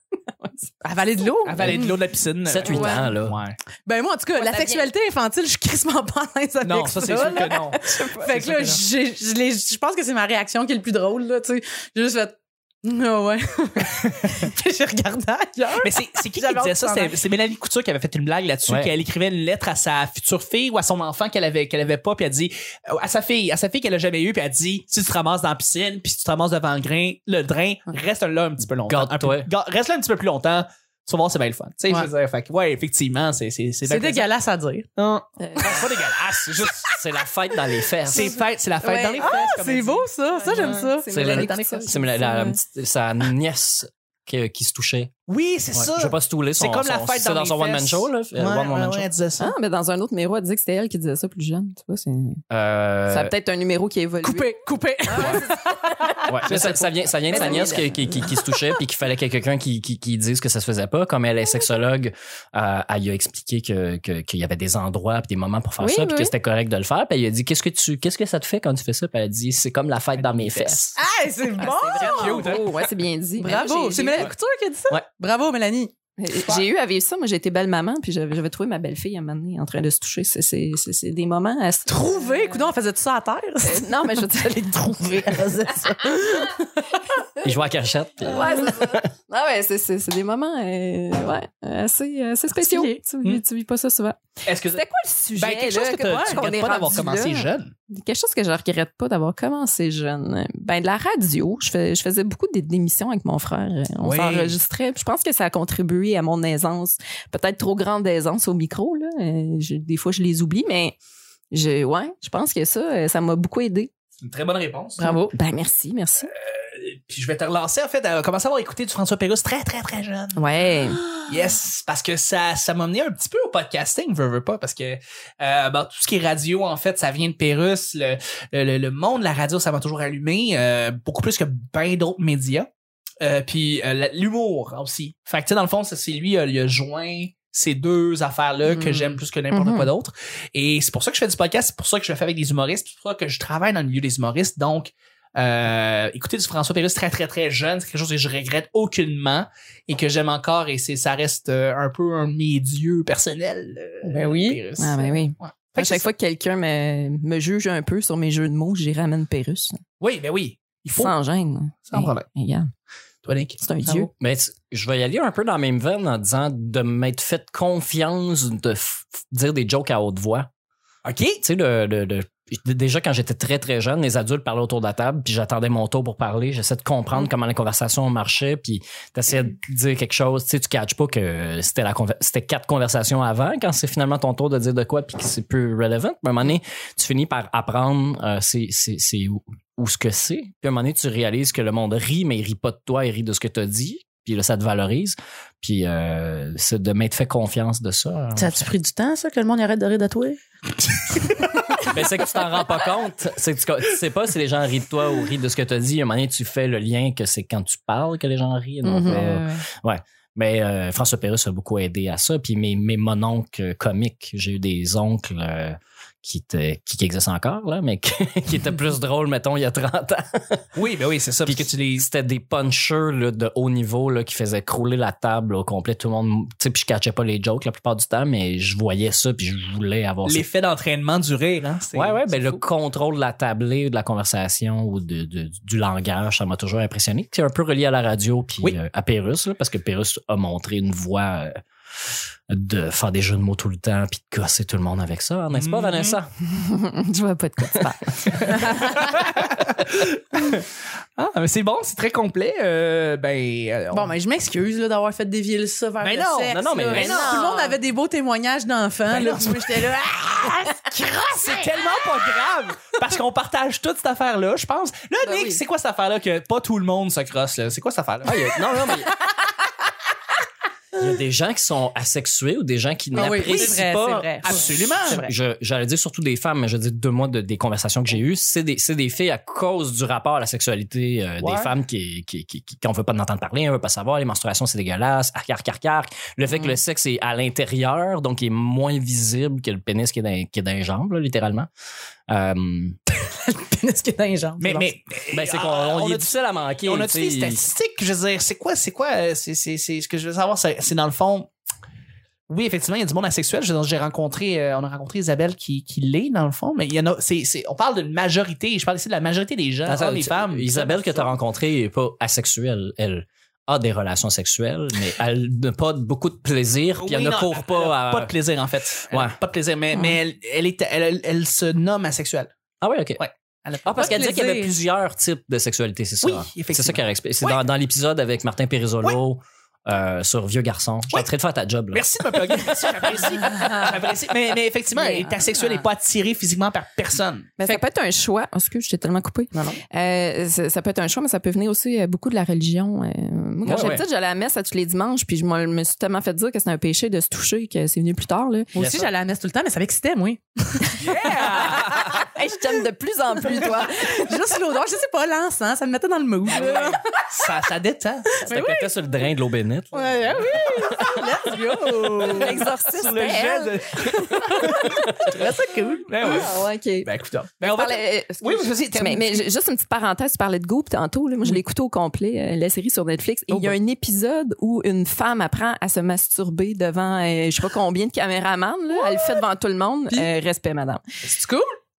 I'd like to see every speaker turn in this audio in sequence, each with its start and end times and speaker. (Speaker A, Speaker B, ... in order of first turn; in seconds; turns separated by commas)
Speaker A: 0.3-0.7, Speaker B: 0.8-2.0, Speaker C: 1.4-3.6, Speaker D: 2.4-3.4, Speaker A: 2.6-3.1, Speaker B: 3.9-17.2, Speaker A: 4.4-4.9, Speaker C: 6.6-8.8, Speaker A: 7.4-8.4, Speaker C: 15.8-34.3, Speaker D: 28.9-29.5, Speaker B: 33.8-34.9, Speaker C: 35.0-36.9, Speaker A: 35.4-35.9, Speaker D: 36.8-38.3, Speaker C: 38.1-41.8, Speaker B: 38.2-41.5, Speaker A: 39.1-39.6, Speaker A: 40.3-42.6, Speaker D: 41.1-45.1, Speaker C: 45.3-49.5, Speaker D: 45.7-49.1, Speaker A: 49.4-52.4, Speaker D: 52.5-53.3, Speaker A: 53.1-54.5, Speaker B: 54.2-56.3, Speaker A: 55.1-56.3, Speaker D: 56.3-70.9, Speaker C: 56.5-56.9, Speaker A: 57.3-58.3, Speaker B: 58.5-58.7, Speaker A: 65.8-66.3, Speaker C: 70.2-70.8, Speaker B: 71.0-72.7, Speaker A: 71.6-74.3, Speaker C: 72.0-72.7, Speaker B: 73.4-75.9, Speaker A: 76.2-82.7, Speaker B: 81.9-86.7, Speaker A: 83.6-84.7, Speaker D: 87.4-89.0, Speaker A: 88.3-94.2, Speaker B: 92.5-93.0, Speaker C: 94.4-94.8, Speaker A: 94.7-111.0, Speaker C: 95.3-97.7, Speaker B: 96.1-96.5, Speaker C: 104.0-104.6, Speaker A: 111.5-113.9, Speaker C: 114.2-115.0, Speaker B: 115.0-115.3, Speaker A: 115.3-116.3, Speaker C: 116.3-120.4, Speaker A: 120.4-121.0, Speaker C: 121.3-132.7, Speaker C: 133.2-156.1, Speaker A: 138.7-139.9, Speaker B: 154.0-154.6, Speaker A: 154.8-159.8, Speaker C: 160.0-161.1, Speaker A: 161.0-162.7, Speaker C: 161.8-162.2, Speaker C: 163.2-164.1, Speaker A: 163.6-164.1, Speaker D: 163.9-170.5, Speaker C: 171.0-171.4, Speaker D: 171.4-198.6, Speaker B: 198.3-201.9, Speaker D: 201.8-220.7, Speaker B: 208.8-209.4, Speaker C: 220.7-222.1, Speaker D: 221.4-230.4, Speaker C: 230.2-232.6, Speaker D: 231.9-246.3, Speaker C: 245.5-246.2, Speaker A: 246.5-248.9, Speaker B: 248.6-248.9, Speaker C: 248.7-250.6, Speaker C: 251.2-254.1, Speaker B: 253.9-262.3, Speaker C: 256.0-257.4, Speaker D: 256.5-257.3, Speaker A: 256.9-257.8, Speaker C: 259.1-268.3, Speaker A: 265.2-265.6, Speaker D: 268.2-269.1, Speaker B: 268.6-269.4, Speaker D: 270.9-291.7, Speaker B: 273.1-275.3, Speaker C: 273.4-273.8, Speaker C: 274.4-275.2, Speaker D: 292.3-293.0, Speaker B: 293.2-294.9, Speaker C: 294.6-301.5, Speaker D: 295.3-297.7, Speaker C: 302.5-311.4, Speaker D: 309.9-318.3, Speaker C: 317.0-322.5, Speaker D: 319.1-319.3, Speaker D: 322.8-323.2, Speaker C: 323.2-324.2, Speaker D: 323.8-332.6, Speaker B: 323.9-324.7, Speaker C: 326.2-327.6, Speaker C: 331.9-337.5, Speaker A: 334.9-335.9, Speaker A: 337.6-348.7, Speaker B: 339.5-339.8, Speaker D: 343.6-344.0, Speaker B: 348.7-350.9, Speaker D: 348.8-349.1, Speaker C: 351.0-352.1, Speaker A: 351.6-354.4, Speaker B: 353.4-357.0, Speaker C: 356.5-358.4, Speaker B: 358.3-359.1, Speaker D: 358.4-361.1, Speaker B: 359.9-362.6, Speaker C: 360.9-361.1, Speaker C: 361.9-364.9, Speaker A: 362.3-365.1, Speaker B: 364.3-366.4, Speaker C: 366.1-366.5, Speaker A: 366.2-367.1, Speaker C: 367.0-369.4, Speaker A: 367.6-381.0, Speaker B: 373.5-373.8, Speaker B: 381.2-381.6